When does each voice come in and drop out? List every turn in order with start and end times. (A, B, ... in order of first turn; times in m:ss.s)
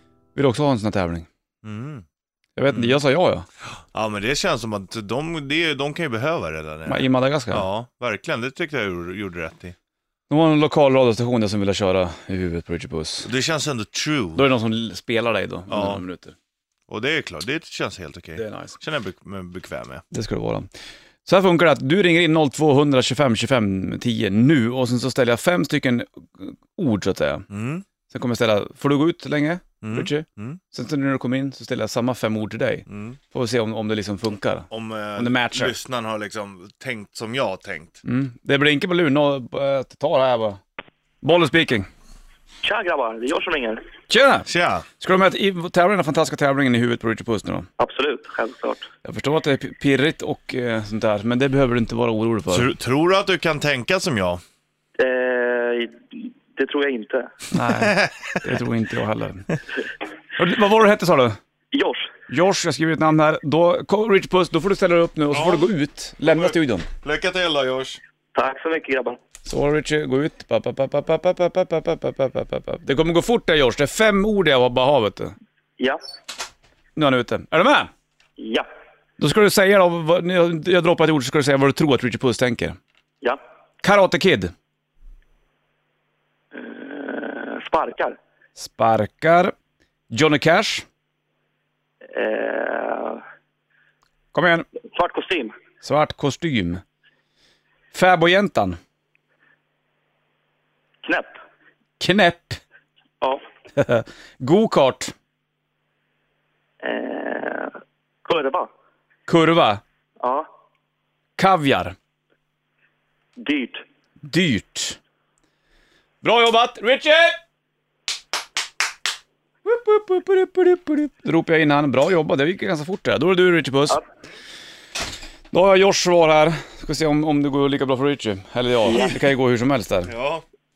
0:00.3-0:01.3 A
0:01.6-0:02.0 B
0:02.6-0:03.5 A
0:02.7-0:03.0 B
0:03.9-0:09.7 B
0:06.8-0:07.6 A
0:10.3-0:13.3 A
0:13.2-0:14.5 B
0:14.4-0:16.3 A
0:15.7-0:16.0 B
0:16.9-0:20.0 B
0:18.4-0:18.8 A
0:20.1-0:20.7 A
0:21.2-0:27.5 A
0:27.5-0:27.8 B
0:28.1-0:35.7 A
0:29.8-0:30.6 B
0:32.9-0:33.2 B
0:34.7-0:38.0 B
0:38.0-0:40.6 A
0:41.2-0:41.9 A
0:42.6-0:43.8 C
0:44.1-0:44.5 A
0:44.4-0:44.8 B
0:45.0-0:47.7 A
0:47.8-0:48.8 C
0:49.0-0:52.7 A
0:52.5-0:54.4 B
0:55.0-0:57.3 C
0:57.5-0:59.6 A
0:57.7-0:58.4 B
1:00.4-1:01.4 A
1:01.7-1:02.1 C
1:02.3-1:06.9 A
1:05.3-1:08.0 B
1:08.3-1:09.2 C
1:09.4-1:15.3 A
1:17.0-1:17.9 A
1:18.4-1:18.7 C
1:19.2-1:22.8 A
1:23.8-1:24.5 A
1:26.5-1:28.2 C
1:28.6-1:29.5 A
1:30.1-1:30.8 A
1:32.1-1:33.2 C
1:34.3-1:34.6 A
1:34.9-1:35.5 C
1:35.8-1:36.8 A
1:37.9-1:38.8 A
1:41.0-1:41.3 C
1:42.0-1:42.6 A
1:43.7-1:45.1 A
1:46.8-1:48.7 C
1:49.3-1:49.8 A
1:50.2-1:50.4 C
1:51.4-1:51.9 A
1:53.4-1:53.8 C
1:54.2-1:55.0 A
1:56.2-1:57.4 A
1:59.6-2:04.0 A
2:05.5-2:10.1 A
2:08.8-2:09.3 B
2:10.1-2:10.4 B